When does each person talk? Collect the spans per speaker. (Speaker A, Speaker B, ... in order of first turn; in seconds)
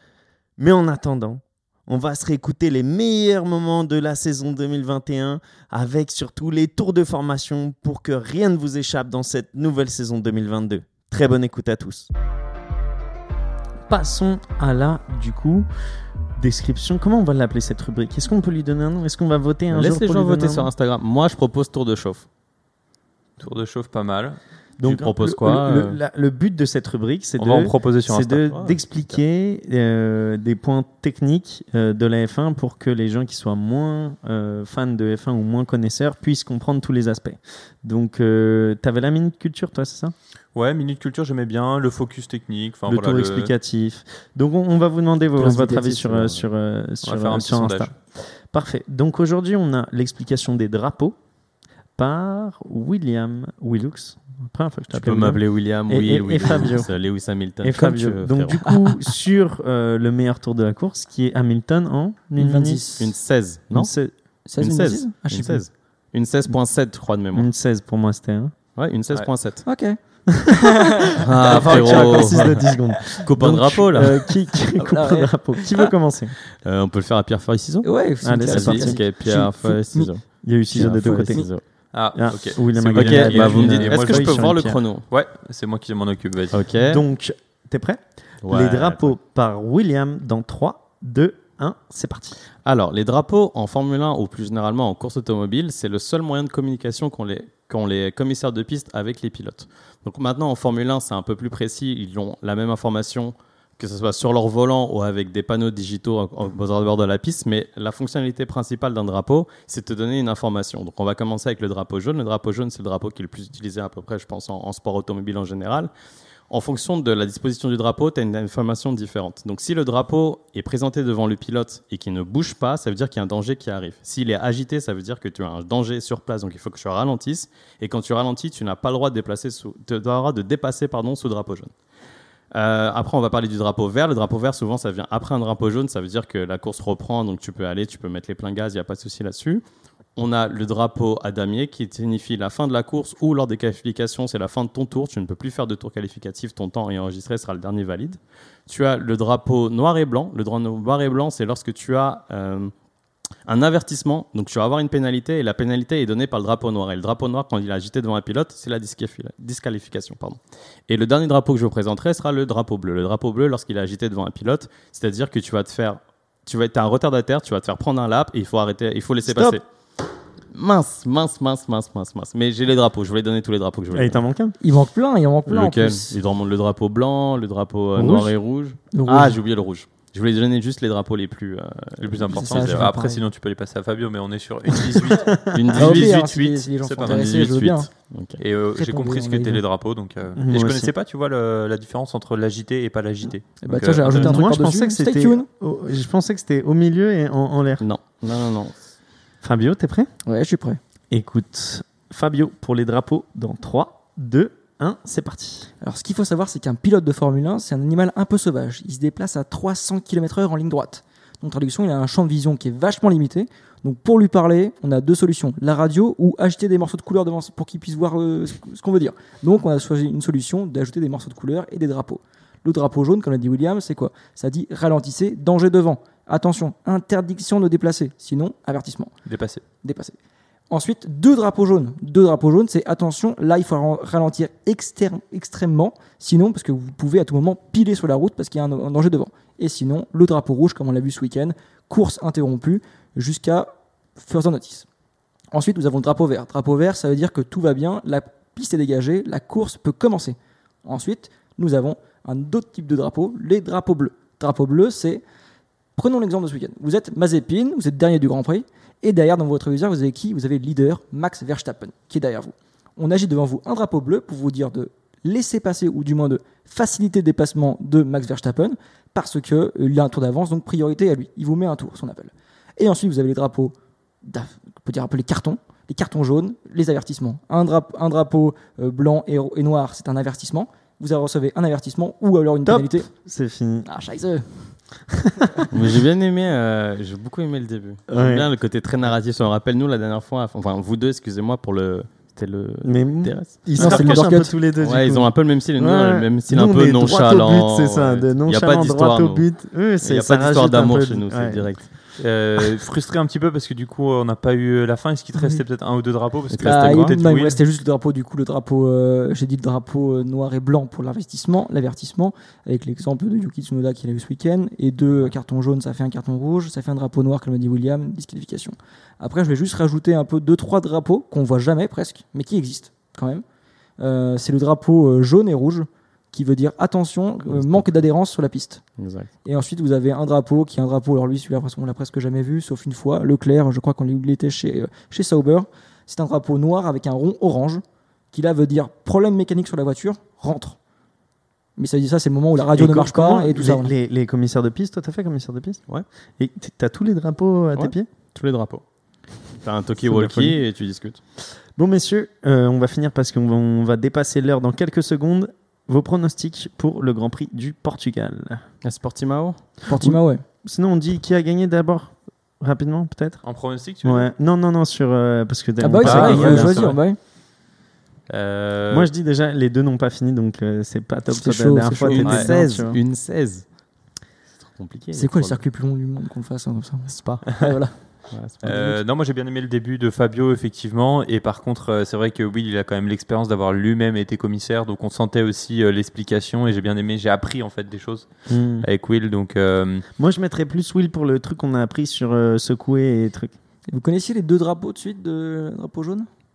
Speaker A: 0.6-12.1, 13.9-15.7, 16.4-20.7, 24.8-40.1, 42.9-48.0, 48.5-51.1, 52.0-56.9, 57.6-62.8, 63.7-64.1, 67.3-68.5, 71.4-76.3, 78.2-79.3, 80.4-81.5, 82.1-84.8, 86.8-92.4, 169.2-169.6, 173.9-174.6, 185.1-185.5, 190.3-190.9, 194.0-197.8, 199.4-200.1, 201.1-205.7, 282.6-283.9, 285.2-285.6, 288.1-288.5, 292.8-301.8, 342.7-345.8, 346.4-348.1, 350.0-350.6, 351.8-358.6, 359.9-363.4, 364.0-366.9, 368.9-373.0, 388.5-388.9, 390.2-393.5
Speaker B: 19.7-22.2, 24.8-26.0, 28.5-29.2, 54.9-58.6, 63.0-63.9, 64.6-67.5, 68.8-69.7, 71.2-74.2, 76.6-77.9, 78.5-81.6, 82.9-85.0, 86.5-87.0, 88.4-89.1, 92.6-115.9, 116.5-131.7, 132.5-139.6, 140.2-152.7, 153.4-169.6, 170.5-174.2, 175.5-182.9, 185.5-188.4, 197.8-198.9, 285.7-301.9, 329.0-329.3, 347.8-348.8, 349.6-351.2, 358.8-359.6, 372.1-373.6, 374.6-375.6, 377.1-377.4, 378.3-378.8
Speaker C: 23.4-24.4, 27.4-28.5, 40.5-43.5, 47.0-47.9, 81.9-86.6, 182.0-187.5, 188.4-194.4, 229.2-229.6, 302.2-307.6, 363.4-364.3, 366.0-367.0, 368.3-369.1, 372.2-372.5, 378.6-388.3, 388.8-390.0
Speaker D: 45.4-46.4, 58.7-59.0, 62.4-63.1, 64.5-65.6, 69.6-72.4, 74.7-75.6, 77.8-80.1, 81.0-81.4, 174.6-176.2, 178.0-178.2, 178.9-179.4, 182.3-183.2, 185.8-187.9, 188.7-189.6, 193.6-195.4, 200.2-200.8, 205.8-229.1, 229.8-230.2, 230.7-244.9, 245.5-255.2, 255.9-283.1, 283.8-284.6, 293.8-294.5, 306.6-323.4, 324.0-328.8, 329.4-340.8, 341.8-343.9, 359.9-360.4, 365.8-367.2, 371.3-372.3, 375.1-378.0, 378.6-379.0, 393.9-396.3